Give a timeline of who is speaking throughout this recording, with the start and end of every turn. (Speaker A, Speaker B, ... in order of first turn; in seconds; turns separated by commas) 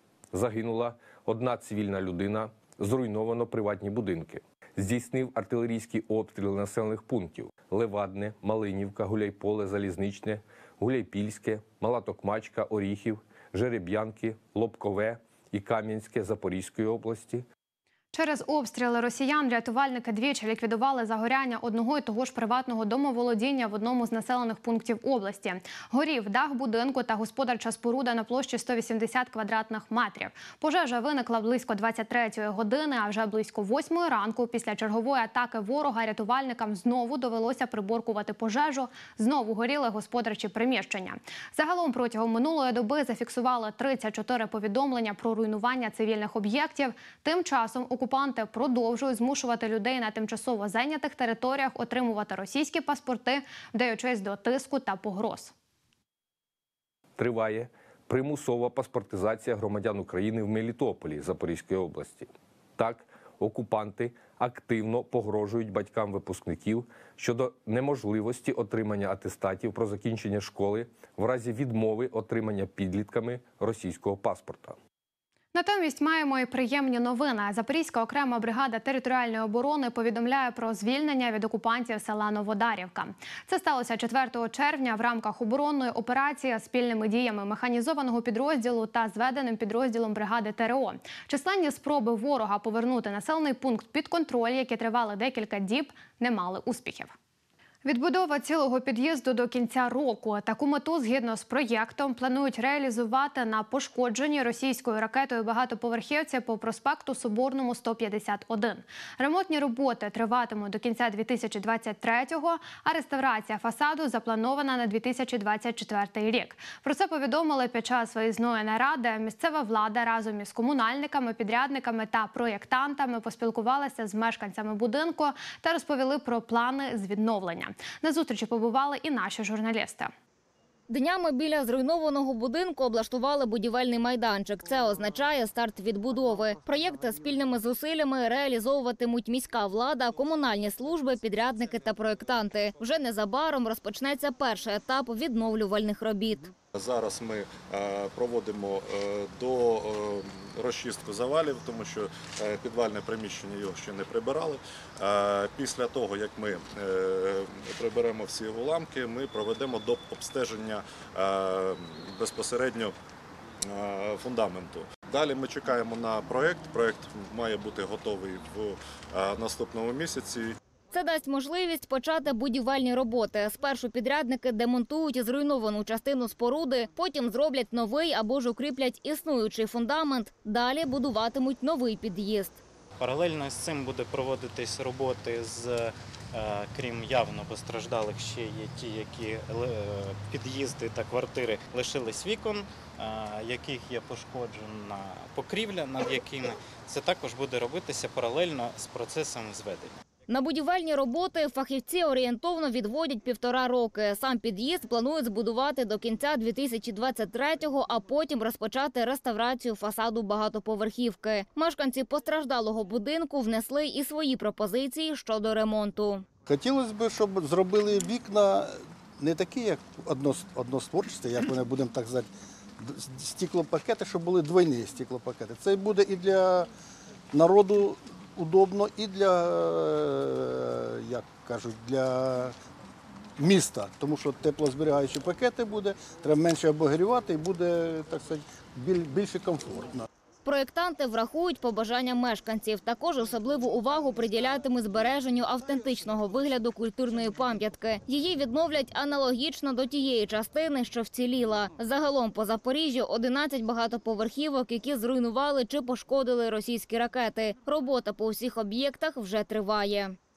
Speaker A: 0.3-17.4, Speaker B: 18.1-55.5, Speaker A: 57.2-74.8, Speaker B: 75.5-97.1, Speaker B: 97.8-130.1, Speaker C: 130.9-146.5, Speaker D: 146.7-162.9, Speaker D: 163.6-170.6, Speaker C: 170.9-182.6, Speaker E: 183.0-199.9, Speaker C: 200.3-216.2, Speaker F: 216.4-226.7, Speaker F: 227.3-232.5, Speaker F: 233.4-240.1, Speaker C: 240.4-260.2